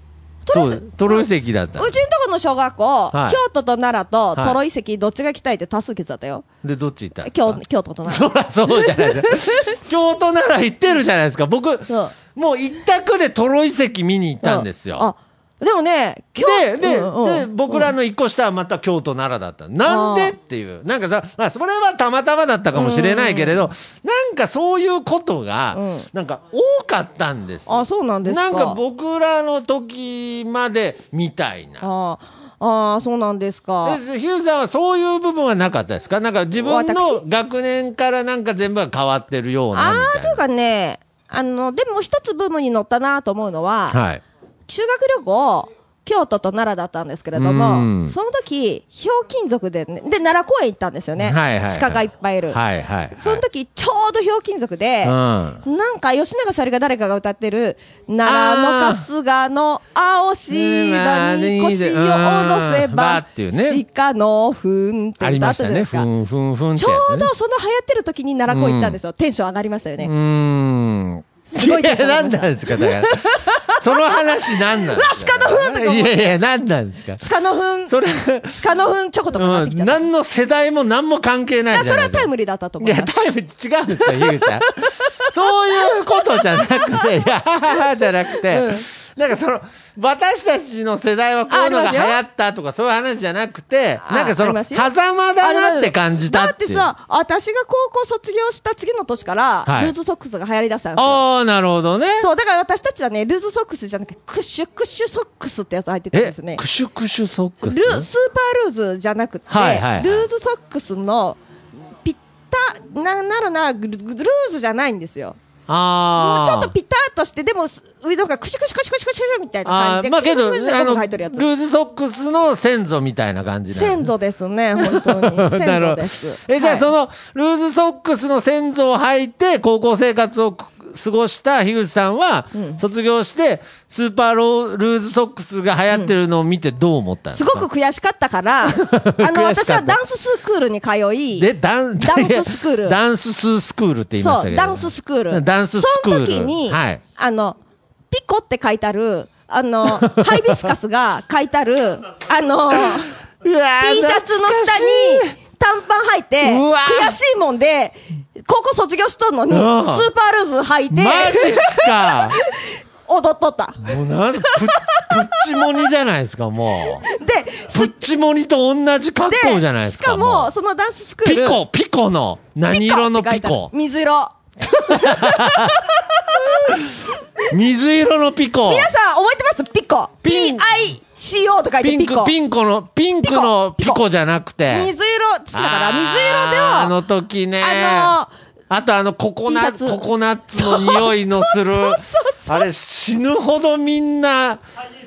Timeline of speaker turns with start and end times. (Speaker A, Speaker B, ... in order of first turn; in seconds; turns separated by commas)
Speaker A: 0.4-6.5, Speaker B: 0.5-1.9, Speaker B: 3.1-3.4, Speaker B: 6.6-15.1, Speaker A: 7.2-9.8, Speaker A: 11.9-12.1, Speaker A: 14.4-17.9, Speaker B: 16.4-31.9, Speaker A: 19.9-20.3, Speaker A: 22.7-23.6, Speaker A: 25.7-26.1, Speaker A: 27.7-28.8, Speaker A: 31.8-34.0, Speaker B: 33.8-40.4, Speaker A: 36.6-37.2, Speaker A: 39.7-44.0, Speaker B: 43.9-44.2, Speaker A: 44.7-52.6, Speaker B: 47.3-48.1, Speaker B: 51.2-53.4, Speaker A: 53.2-66.1, Speaker B: 55.0-55.6, Speaker B: 58.2-59.1, Speaker B: 60.5-63.8, Speaker B: 65.2-67.3, Speaker A: 66.8-70.1, Speaker B: 68.5-69.0, Speaker B: 70.0-77.2, Speaker A: 71.5-76.3, Speaker A: 77.2-80.0, Speaker B: 77.9-78.6, Speaker B: 79.3-82.3, Speaker A: 81.7-83.1, Speaker B: 82.8-96.9, Speaker A: 84.0-87.1, Speaker A: 88.3-88.8, Speaker A: 91.5-92.2, Speaker A: 94.0-94.9, Speaker A: 95.4-101.2, Speaker B: 99.7-99.9, Speaker B: 101.0-102.3, Speaker A: 102.2-106.6, Speaker B: 106.1-108.1, Speaker A: 107.6-115.4, Speaker B: 109.5-110.2, Speaker B: 115.7-116.7, Speaker A: 116.2-121.5, Speaker B: 119.6-124.1, Speaker A: 123.7-126.9, Speaker B: 124.8-137.7, Speaker A: 132.5-132.8, Speaker A: 137.3-141.5, Speaker B: 138.6-140.0, Speaker B: 141.3-147.0, Speaker A: 142.0-143.0, Speaker A: 144.2-147.6, Speaker A: 148.1-153.1, Speaker B: 149.9-150.7, Speaker B: 153.4-155.3, Speaker A: 153.8-165.8, Speaker B: 156.4-157.2, Speaker B: 159.5-160.1, Speaker B: 160.9-162.4, Speaker B: 163.8-167.1, Speaker A: 167.0-168.1, Speaker B: 167.7-170.5, Speaker A: 169.3-171.6, Speaker B: 171.2-173.7, Speaker A: 172.7-176.8, Speaker B: 174.7-175.9, Speaker B: 176.4-176.8, Speaker B: 177.5-178.9, Speaker A: 178.7-182.3, Speaker B: 180.2-180.7, Speaker B: 181.8-184.9, Speaker A: 183.2-184.0, Speaker A: 184.7-186.9, Speaker B: 185.5-188.1, Speaker A: 187.6-188.3, Speaker B: 188.7-194.6, Speaker A: 189.5-190.0, Speaker A: 190.5-192.7